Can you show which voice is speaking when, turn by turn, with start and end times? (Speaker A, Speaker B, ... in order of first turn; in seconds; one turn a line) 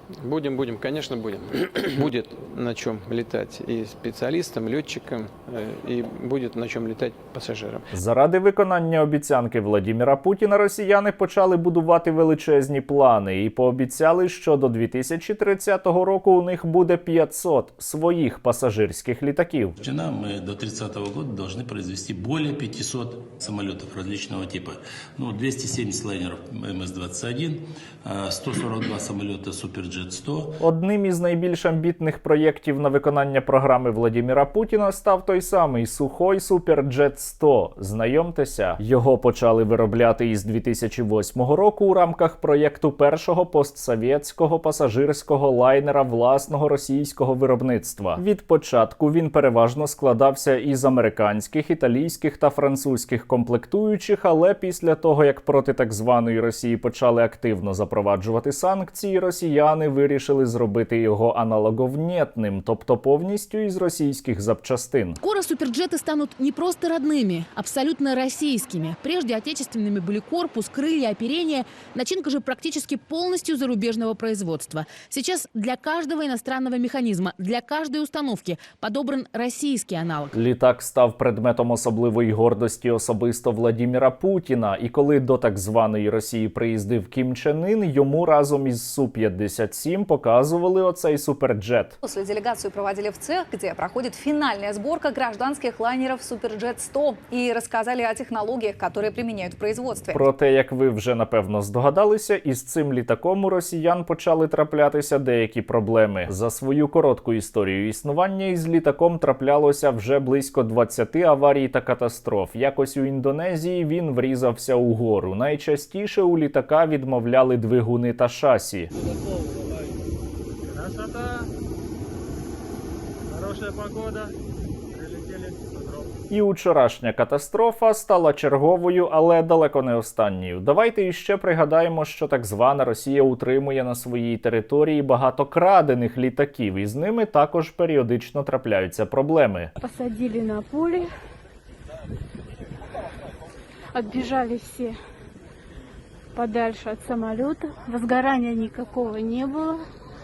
Speaker A: 0.1-7.8
Speaker B: 7.9-19.8
Speaker C: 19.8-30.6
Speaker B: 30.6-65.2
Speaker D: 65.2-80.3
Speaker B: 80.3-92.0
Speaker E: 92.0-100.2
Speaker B: 100.1-118.9
Speaker F: 120.7-121.5
Speaker F: 123.3-124.3
Speaker F: 124.9-126.1
Speaker B: 126.3-139.7
Speaker G: 139.8-141.1
Speaker G: 143.9-145.0
Speaker G: 146.4-149.8